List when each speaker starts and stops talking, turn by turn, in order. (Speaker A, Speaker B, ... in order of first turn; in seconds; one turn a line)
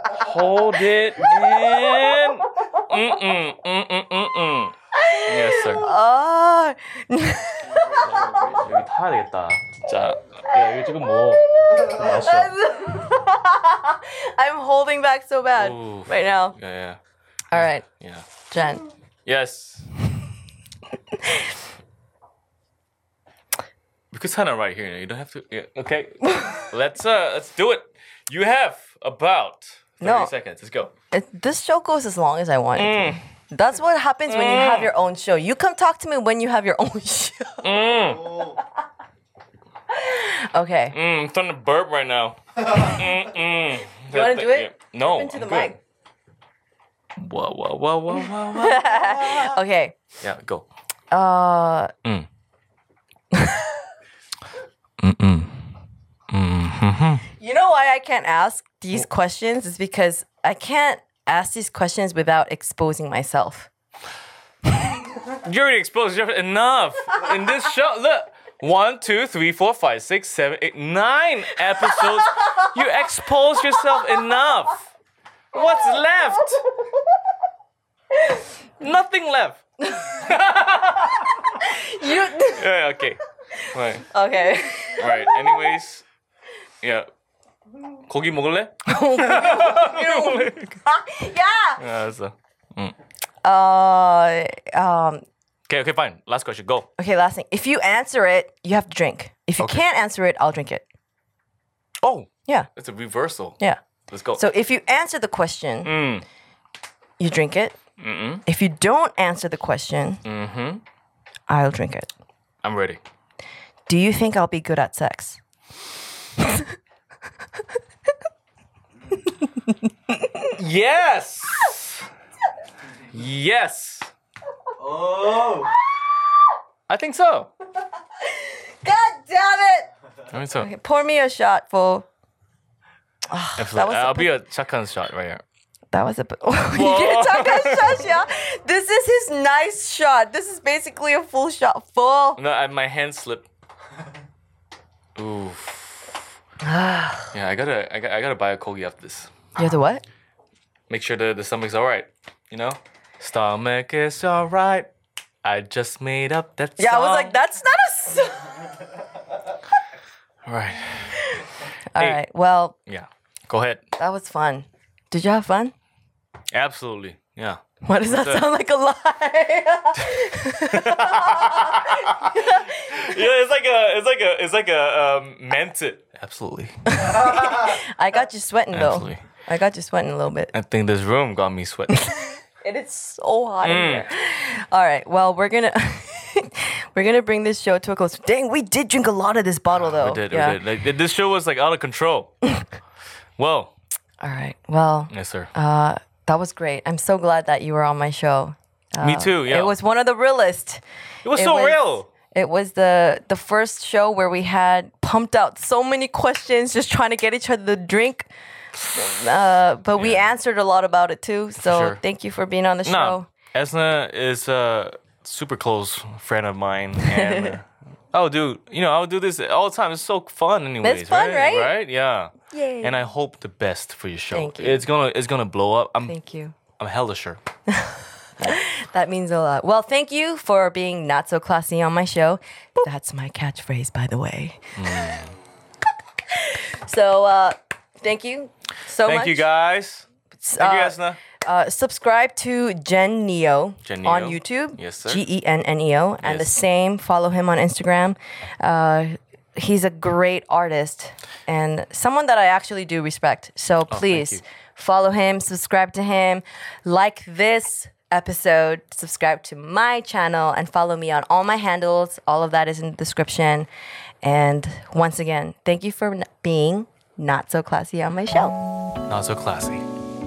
Speaker A: 0.1-5.9
Speaker B: 4.9-8.2
Speaker C: 7.8-8.5
Speaker A: 8.0-12.5
Speaker B: 11.2-16.6
Speaker A: 15.6-17.0
Speaker B: 17.5-17.9
Speaker A: 17.6-18.3
Speaker B: 18.4-18.9
Speaker A: 19.2-19.9
Speaker A: 24.1-30.9
Speaker B: 30.0-30.3
Speaker B: 31.1-37.7
Speaker A: 32.8-33.2
Speaker A: 34.3-34.9
Speaker A: 37.6-38.5
Speaker C: 38.1-38.6
Speaker B: 39.9-41.0
Speaker A: 40.9-45.7
Speaker B: 44.1-45.8
Speaker A: 47.2-49.6
Speaker B: 48.1-50.0
Speaker A: 50.2-50.7
Speaker B: 51.1-51.9
Speaker B: 53.3-53.8
Speaker A: 55.0-55.7
Speaker A: 56.3-57.3
Speaker B: 57.4-63.7
Speaker B: 64.7-65.0
Speaker A: 65.4-74.9
Speaker B: 72.0-72.6
Speaker A: 75.5-76.6
Speaker B: 78.2-78.4
Speaker A: 78.8-81.6
Speaker B: 79.9-80.2
Speaker B: 81.3-82.7
Speaker A: 82.4-84.1
Speaker B: 83.6-85.8
Speaker A: 85.0-86.0
Speaker A: 86.8-87.1
Speaker A: 88.1-90.8
Speaker B: 88.8-91.8
Speaker A: 91.8-93.0
Speaker B: 93.4-95.2
Speaker A: 95.7-96.9
Speaker B: 97.0-100.8
Speaker A: 102.0-103.6
Speaker A: 104.1-104.4
Speaker B: 104.3-105.9
Speaker A: 105.8-106.2
Speaker B: 107.2-107.8
Speaker A: 108.0-108.4
Speaker B: 108.5-110.2
Speaker A: 110.2-110.8
Speaker B: 111.5-112.1
Speaker A: 112.6-113.0
Speaker B: 113.9-115.4
Speaker B: 116.4-116.7
Speaker B: 119.4-120.5
Speaker A: 120.5-122.0
Speaker A: 123.1-124.1
Speaker C: 124.8-125.7
Speaker A: 126.9-127.5
Speaker B: 128.2-129.9
Speaker A: 130.3-130.7
Speaker B: 130.5-132.1
Speaker B: 133.3-134.3
Speaker A: 133.6-135.4
Speaker B: 135.9-142.4
Speaker A: 136.7-138.1
Speaker A: 142.4-143.5
Speaker A: 145.2-146.2
Speaker B: 146.6-147.3
Speaker A: 147.3-149.3
Speaker B: 149.6-150.0
Speaker A: 150.9-154.9
Speaker A: 155.4-157.3
Speaker B: 156.8-158.8
Speaker A: 160.5-161.2
Speaker B: 161.2-162.8
Speaker A: 162.9-163.8
Speaker B: 164.0-165.7
Speaker A: 166.5-168.4
Speaker B: 167.8-173.2
Speaker A: 170.7-176.8
Speaker B: 176.9-180.5
Speaker A: 178.7-179.2
Speaker A: 180.5-182.3
Speaker B: 182.0-190.6
Speaker A: 183.6-184.1
Speaker A: 189.7-192.4
Speaker A: 193.4-193.7
Speaker B: 194.2-200.8
Speaker A: 195.1-195.5
Speaker A: 199.0-199.7
Speaker A: 201.2-202.1
Speaker B: 201.3-208.3
Speaker B: 208.9-213.3
Speaker A: 210.0-210.2
Speaker A: 211.6-212.0
Speaker A: 212.8-226.2
Speaker B: 217.0-217.6
Speaker B: 220.8-221.7
Speaker B: 222.5-223.0
Speaker B: 224.3-224.9
Speaker B: 226.1-226.6
Speaker A: 226.8-227.4
Speaker B: 227.7-235.1
Speaker A: 234.8-235.4
Speaker B: 236.3-239.5
Speaker A: 239.0-241.2
Speaker B: 240.4-263.7
Speaker A: 243.8-245.2
Speaker A: 246.2-246.6
Speaker A: 253.9-254.4
Speaker B: 264.2-268.6
Speaker A: 269.1-269.9